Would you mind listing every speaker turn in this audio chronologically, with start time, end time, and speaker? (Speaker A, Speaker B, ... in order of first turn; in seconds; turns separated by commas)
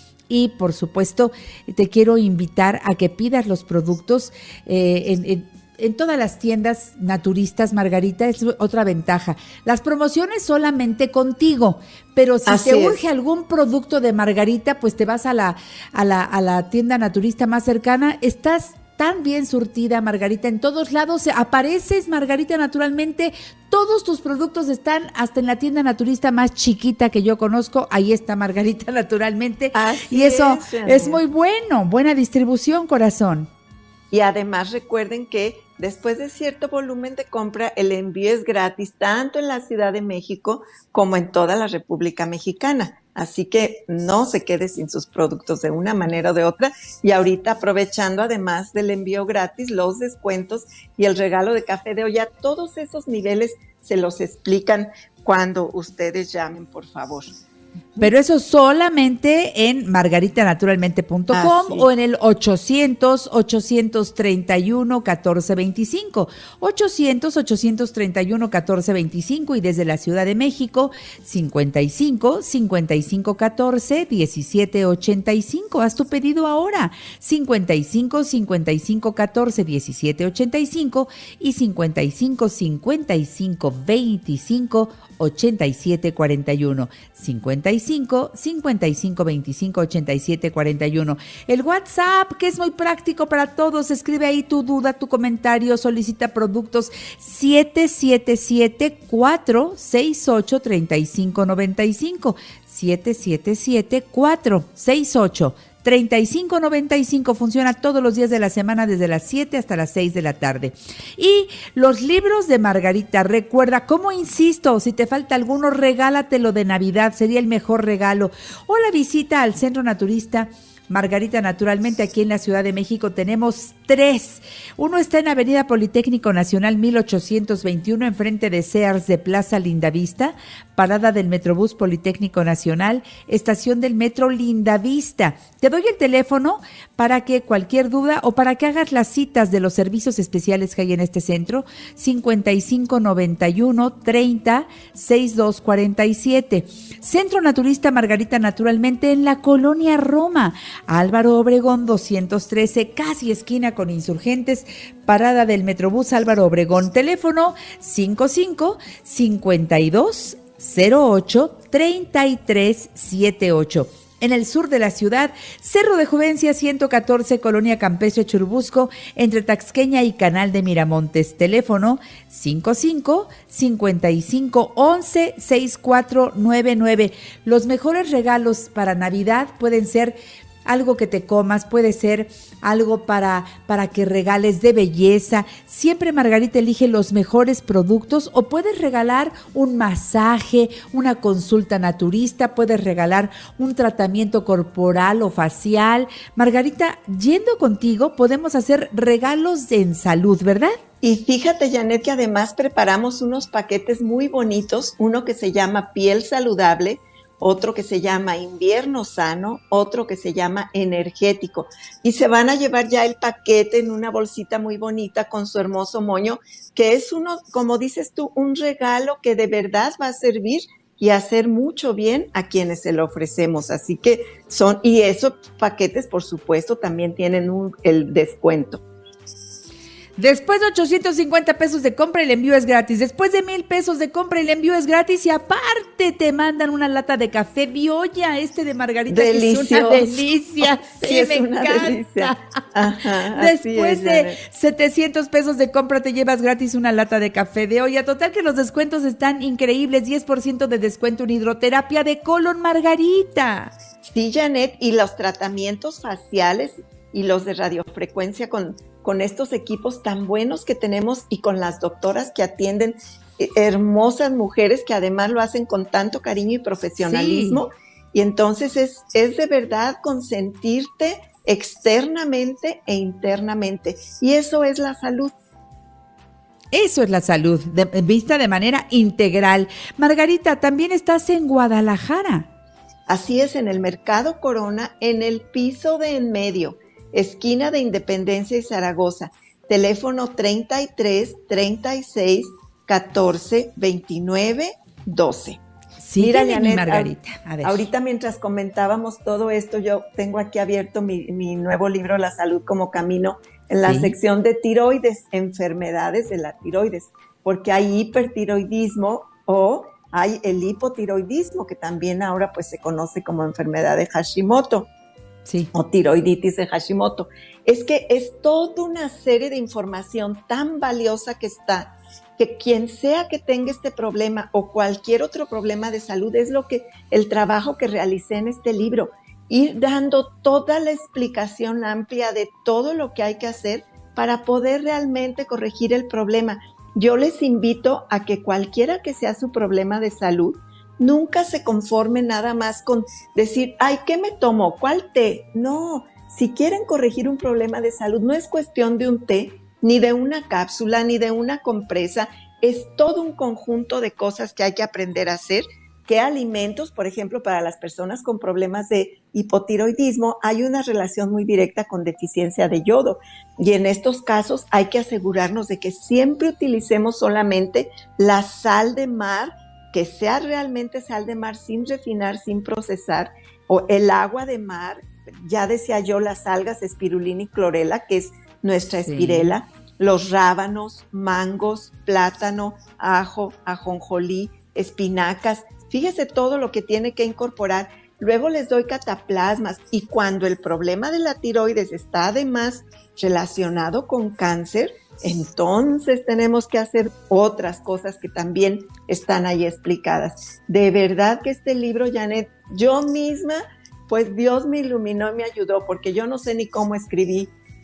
Speaker A: 0.3-33.5, Speaker B: 12.4-13.0, Speaker B: 29.7-31.2, Speaker B: 34.1-57.3, Speaker A: 58.0-200.8, Speaker B: 61.3-61.9, Speaker B: 201.0-228.8, Speaker A: 230.2-242.4, Speaker B: 239.1-244.4, Speaker A: 243.3-253.7, Speaker B: 254.0-275.3, Speaker A: 267.0-267.6, Speaker A: 276.7-282.5, Speaker B: 283.1-295.6, Speaker A: 296.0-297.8, Speaker B: 296.2-297.1, Speaker B: 297.6-314.9, Speaker A: 303.8-304.1, Speaker A: 315.5-315.7, Speaker B: 315.7-407.5, Speaker A: 379.0-379.5